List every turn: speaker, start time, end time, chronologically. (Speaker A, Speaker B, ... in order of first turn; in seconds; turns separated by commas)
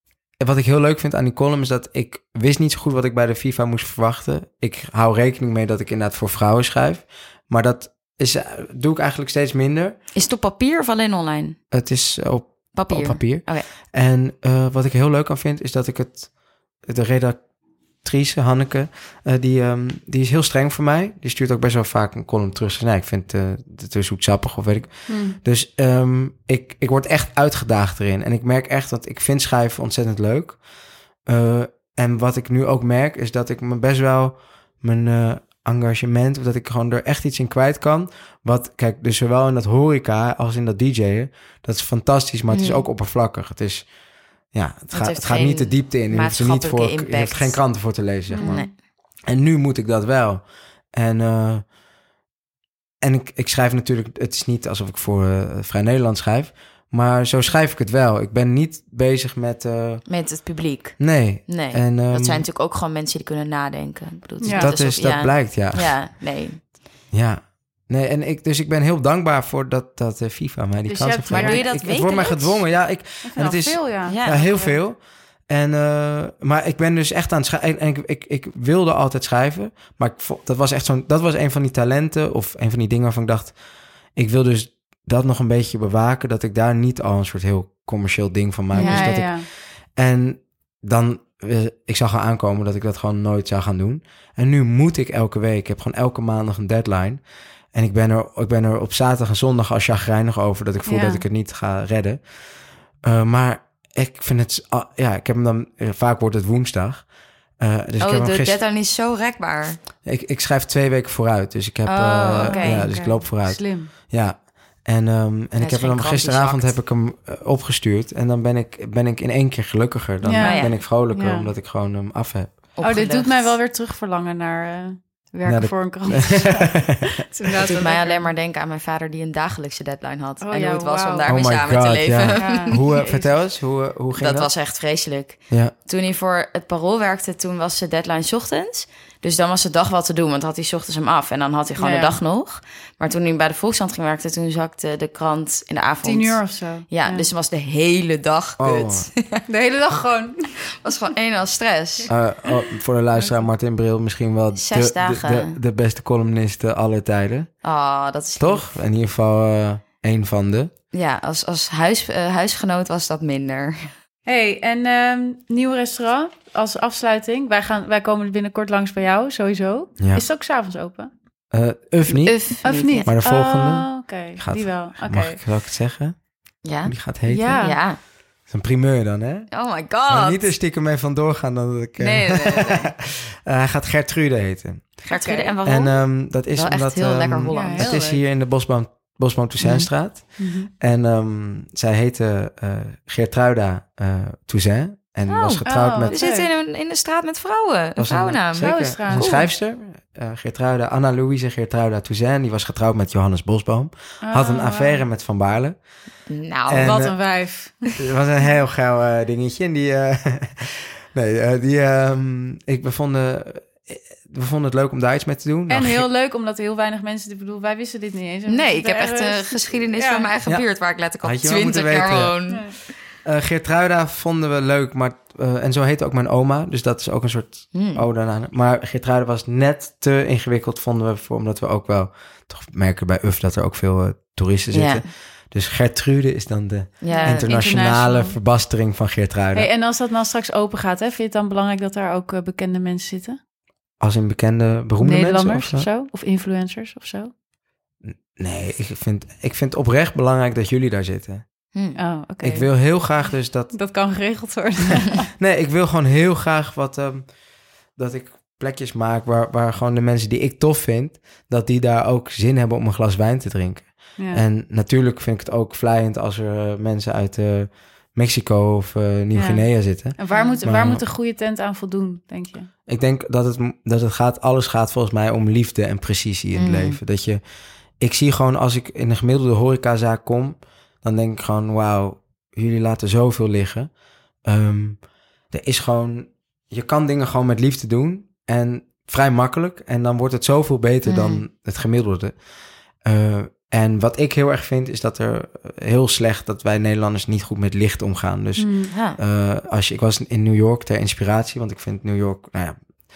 Speaker A: 0.4-10.0, Speaker B: 10.1-11.6, Speaker A: 11.7-17.4, Speaker B: 12.7-13.7, Speaker A: 18.0-30.6, Speaker C: 25.1-25.4, Speaker A: 31.2-43.9, Speaker B: 42.5-42.8, Speaker A: 44.5-51.7, Speaker B: 44.9-48.7, Speaker C: 48.3-48.7, Speaker A: 53.0-60.0, Speaker B: 60.1-66.7, Speaker A: 61.0-62.5, Speaker C: 64.4-64.7, Speaker A: 64.5-66.0, Speaker A: 67.1-83.6, Speaker C: 70.9-71.7, Speaker B: 71.3-72.6, Speaker C: 73.2-74.7, Speaker B: 74.0-74.7, Speaker A: 84.1-108.6, Speaker B: 88.7-89.1, Speaker C: 88.7-89.5, Speaker C: 100.8-101.2, Speaker B: 108.0-109.8, Speaker A: 110.0-122.7, Speaker B: 111.8-112.9, Speaker C: 112.4-113.9, Speaker B: 115.6-116.8, Speaker C: 120.2-121.5, Speaker B: 120.4-120.8, Speaker B: 122.7-123.5, Speaker C: 122.8-128.3, Speaker A: 125.5-127.0, Speaker B: 127.6-132.8, Speaker C: 130.4-131.4, Speaker A: 131.3-134.5, Speaker C: 132.4-133.3, Speaker B: 134.2-149.4, Speaker C: 141.8-142.2, Speaker C: 146.0-147.3, Speaker A: 148.6-149.1, Speaker C: 149.5-150.4, Speaker B: 150.8-152.1, Speaker A: 152.1-157.5, Speaker B: 154.5-155.6, Speaker B: 157.6-158.8, Speaker A: 158.4-160.7, Speaker B: 160.9-163.9, Speaker C: 164.2-171.1, Speaker A: 171.5-176.2, Speaker B: 172.1-173.1, Speaker C: 172.6-175.4, Speaker B: 176.6-178.0, Speaker A: 176.8-177.7, Speaker C: 177.3-177.8, Speaker A: 178.5-179.5, Speaker B: 179.5-180.5, Speaker A: 180.1-185.0, Speaker B: 182.0-182.8, Speaker B: 185.0-188.0, Speaker C: 185.1-185.5, Speaker A: 185.6-196.2, Speaker C: 187.5-188.2, Speaker B: 189.6-189.9, Speaker C: 190.4-190.7, Speaker B: 195.3-199.5, Speaker C: 195.6-196.5, Speaker A: 198.0-205.8, Speaker C: 198.5-199.2, Speaker C: 204.2-205.0, Speaker B: 206.3-207.0, Speaker A: 206.7-207.3, Speaker C: 206.8-207.9, Speaker A: 207.9-216.1, Speaker C: 215.7-220.3, Speaker B: 218.5-222.9, Speaker A: 221.2-222.5, Speaker C: 222.5-222.7, Speaker A: 223.2-239.7, Speaker B: 227.7-228.0, Speaker B: 234.7-235.0, Speaker B: 237.0-237.5, Speaker C: 237.1-238.3, Speaker C: 239.5-243.4, Speaker A: 244.0-245.9, Speaker C: 245.0-247.3, Speaker A: 248.0-251.4, Speaker C: 251.9-252.7, Speaker A: 252.4-253.8, Speaker C: 253.7-255.3, Speaker A: 255.4-257.4, Speaker A: 257.9-271.0, Speaker C: 264.2-264.4, Speaker C: 269.3-272.7, Speaker B: 270.3-270.6, Speaker A: 272.9-277.4, Speaker B: 276.5-277.0, Speaker A: 278.0-302.9, Speaker B: 291.1-291.4, Speaker C: 298.6-298.9, Speaker B: 298.9-299.2